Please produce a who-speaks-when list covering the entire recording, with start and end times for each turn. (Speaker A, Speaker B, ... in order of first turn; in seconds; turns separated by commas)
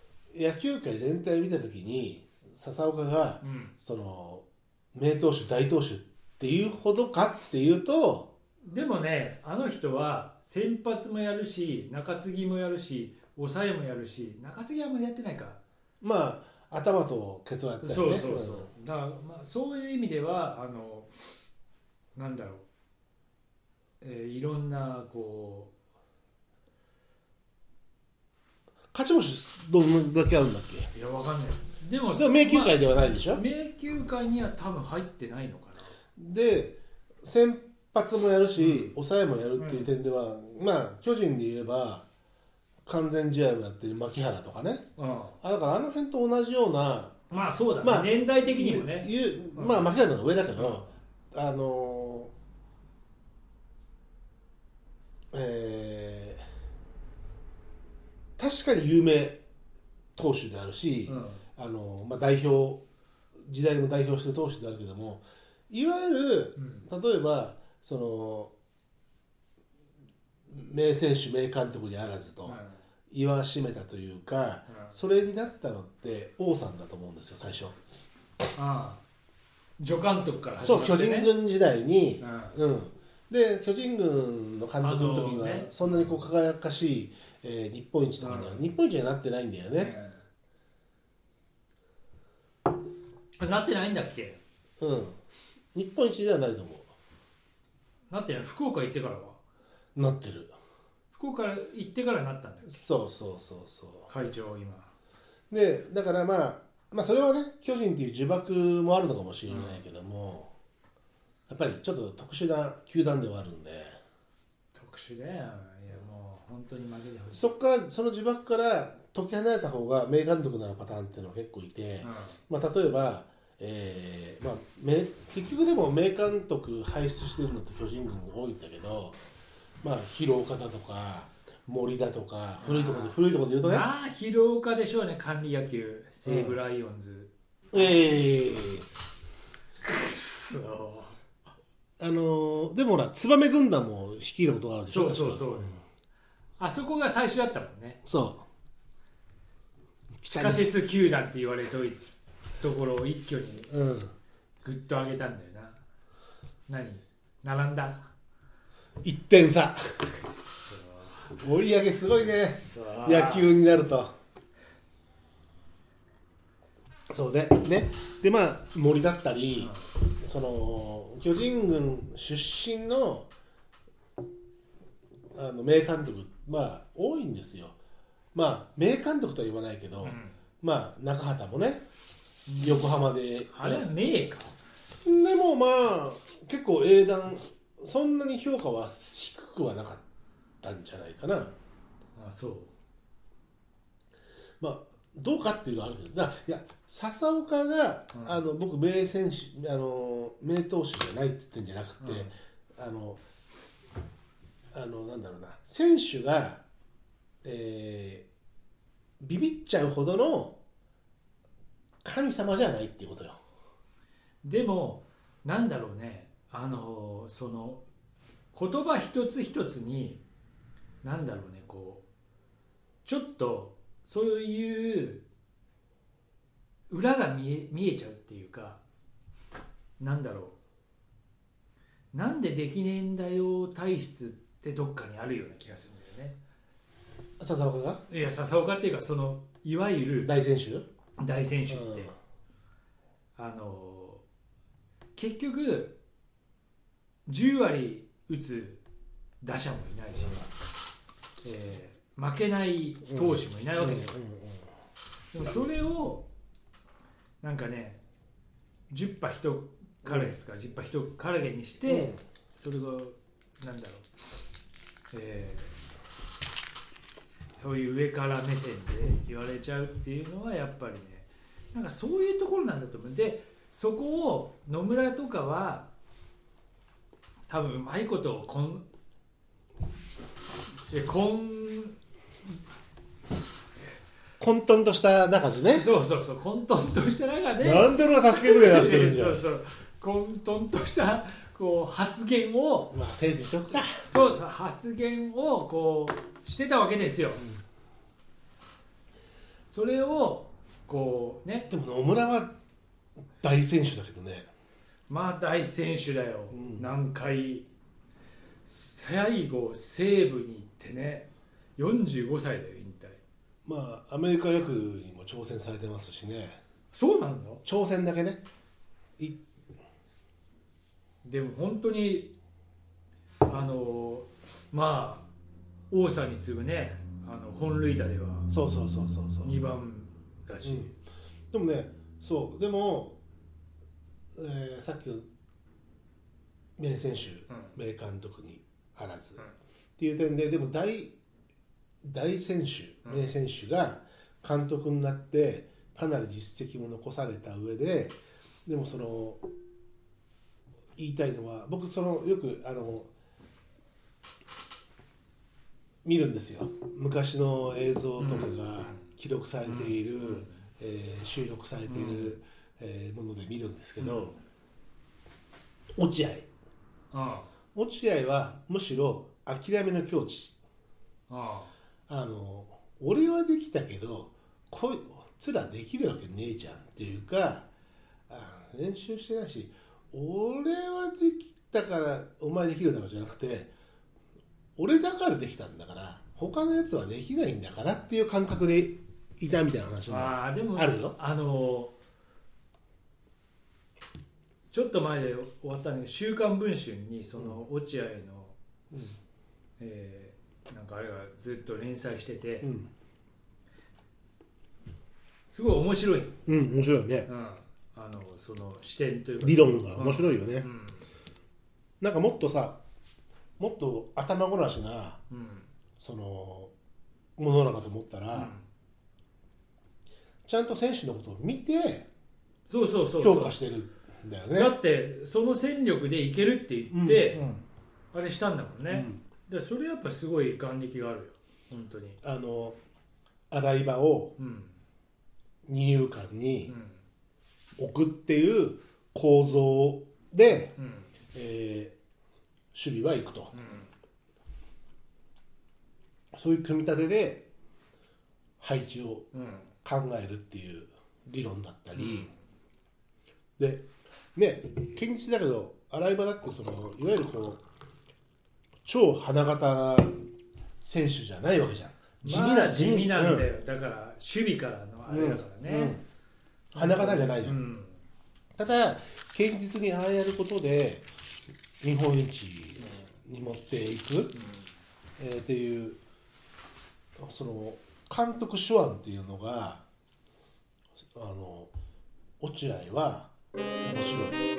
Speaker A: 0.3-8.3, Speaker B: 3.4-3.7, Speaker B: 8.6-15.6, Speaker A: 16.0-18.7, Speaker B: 17.8-21.1, Speaker B: 22.1-22.6, Speaker B: 24.0-25.7, Speaker A: 28.9-30.9, Speaker B: 30.9-35.9, Speaker A: 32.1-33.4, Speaker A: 36.1-42.0, Speaker B: 38.6-39.0, Speaker B: 39.5-39.9, Speaker A: 42.9-44.8, Speaker B: 45.0-45.4, Speaker A: 45.4-47.2, Speaker B: 47.3-49.9, Speaker A: 47.8-52.3, Speaker B: 50.6-50.8, Speaker A: 55.3-56.4, Speaker A: 58.4-59.4, Speaker A: 60.1-62.8, Speaker B: 61.1-61.4, Speaker A: 63.4-68.5, Speaker B: 66.6-66.8, Speaker A: 70.5-77.8, Speaker B: 72.4-72.8, Speaker B: 74.7-74.9, Speaker B: 78.5-79.0, Speaker B: 79.8-81.3, Speaker A: 80.6-89.9, Speaker B: 82.2-82.6, Speaker B: 84.8-86.2, Speaker B: 88.2-88.6, Speaker B: 89.8-90.2, Speaker B: 93.4-94.4, Speaker A: 94.8-95.2, Speaker A: 95.7-96.9, Speaker B: 98.1-99.4, Speaker A: 100.0-100.5, Speaker B: 101.1-102.8, Speaker A: 102.7-104.1, Speaker B: 104.1-104.9, Speaker A: 105.5-110.5, Speaker B: 109.5-109.8, Speaker A: 111.5-114.0, Speaker B: 114.7-117.5, Speaker A: 117.3-129.2, Speaker B: 122.0-122.4, Speaker A: 129.8-133.9, Speaker B: 132.6-137.3, Speaker A: 136.2-136.6, Speaker A: 137.7-138.8, Speaker B: 139.8-141.2, Speaker A: 142.0-145.8, Speaker B: 144.8-145.8, Speaker B: 146.6-148.0, Speaker A: 148.0-148.4, Speaker A: 150.2-150.7, Speaker B: 150.3-152.0, Speaker B: 152.6-153.7, Speaker A: 153.7-154.1, Speaker B: 154.6-155.8, Speaker B: 156.7-158.1, Speaker A: 159.0-160.1, Speaker B: 160.2-161.3, Speaker A: 161.3-164.1, Speaker B: 162.2-163.6, Speaker A: 167.1-173.3, Speaker B: 169.6-169.9, Speaker A: 175.3-177.8, Speaker A: 178.3-181.8, Speaker B: 180.0-180.3, Speaker B: 182.5-183.0, Speaker A: 182.6-183.9, Speaker B: 183.5-184.6, Speaker A: 185.0-190.0, Speaker A: 190.6-191.5, Speaker B: 192.2-192.7, Speaker A: 194.6-203.2, Speaker B: 198.1-198.4, Speaker B: 202.0-202.3, Speaker A: 204.7-206.6, Speaker A: 207.4-208.3, Speaker A: 209.2-210.6, Speaker A: 212.0-213.4, Speaker B: 214.4-217.8, Speaker B: 218.5-220.2, Speaker B: 221.0-222.0, Speaker B: 223.0-225.2, Speaker B: 226.9-228.8, Speaker B: 230.0-230.6, Speaker B: 232.1-236.4, Speaker A: 237.4-238.0, Speaker B: 238.1-240.3, Speaker A: 240.2-240.9, Speaker B: 241.2-242.1, Speaker A: 241.7-242.1, Speaker B: 243.4-244.2, Speaker B: 245.2-246.0, Speaker B: 247.3-248.8, Speaker B: 249.4-250.5, Speaker B: 251.4-254.1, Speaker A: 253.1-254.7, Speaker B: 255.3-256.3, Speaker B: 257.4-258.0, Speaker B: 258.9-264.1, Speaker A: 260.0-260.3, Speaker A: 261.8-262.2, Speaker B: 265.1-265.8, Speaker B: 267.5-275.9, Speaker B: 277.5-278.8, Speaker B: 280.9-281.9, Speaker A: 284.4-285.9, Speaker B: 285.7-292.9, Speaker A: 287.6-289.4, Speaker A: 292.9-294.0, Speaker B: 294.0-297.4, Speaker B: 299.7-301.7, Speaker A: 301.7-302.5, Speaker A: 303.4-304.5, Speaker B: 305.1-307.7, Speaker A: 306.5-306.9, Speaker B: 308.6-313.2, Speaker A: 313.6-316.6, Speaker B: 316.9-317.6, Speaker A: 317.6-318.4, Speaker B: 321.2-322.3, Speaker B: 323.4-325.3, Speaker B: 325.9-328.5, Speaker A: 328.5-329.5, Speaker B: 329.4-330.9, Speaker A: 330.6-330.9, Speaker A: 331.5-333.2, Speaker A: 334.4-335.2, Speaker A: 336.8-339.4, Speaker B: 337.5-337.7, Speaker A: 340.0-341.2, Speaker A: 342.0-349.4, Speaker B: 343.0-343.3, Speaker A: 351.0-353.1, Speaker A: 356.0-364.4, Speaker B: 358.2-359.0, Speaker B: 359.6-360.6, Speaker B: 361.9-362.4, Speaker B: 364.0-364.3, Speaker A: 366.0-366.4, Speaker B: 367.1-367.5, Speaker A: 367.7-370.6, Speaker B: 371.3-371.7, Speaker A: 372.1-377.7, Speaker A: 378.3-383.7, Speaker A: 384.8-391.1, Speaker B: 390.1-391.9, Speaker B: 394.7-398.5, Speaker A: 398.9-399.2, Speaker B: 399.8-402.7, Speaker A: 402.6-402.9, Speaker B: 405.5-406.6, Speaker A: 406.4-407.3, Speaker B: 407.2-411.0, Speaker A: 409.4-410.7, Speaker A: 412.0-412.8, Speaker A: 413.6-415.2, Speaker B: 415.3-415.7, Speaker A: 416.0-416.7, Speaker A: 417.4-418.5, Speaker B: 418.3-418.6, Speaker A: 420.4-422.1, Speaker B: 422.7-423.6, Speaker A: 423.2-424.8, Speaker B: 424.5-427.5, Speaker A: 426.9-427.6, Speaker B: 428.1-432.2, Speaker A: 428.9-429.2, Speaker A: 432.2-432.8, Speaker A: 433.5-434.4, Speaker B: 434.4-434.8, Speaker A: 435.6-436.7, Speaker B: 436.7-437.0, Speaker A: 437.8-440.7, Speaker B: 440.8-441.1, Speaker A: 441.3-441.9, Speaker A: 442.7-443.5, Speaker B: 443.5-443.9, Speaker A: 446.3-447.5, Speaker A: 448.6-449.3, Speaker B: 449.3-449.7, Speaker A: 449.8-452.3, Speaker B: 451.9-452.3, Speaker A: 453.6-457.6, Speaker A: 458.8-460.3, Speaker A: 460.8-463.5, Speaker B: 462.2-466.0, Speaker A: 465.1-466.0, Speaker A: 466.7-467.6, Speaker B: 466.7-468.0, Speaker A: 468.6-471.1, Speaker A: 471.8-474.3, Speaker B: 474.3-474.7, Speaker A: 475.2-476.0, Speaker A: 477.2-479.8, Speaker A: 481.1-481.7, Speaker A: 482.4-484.4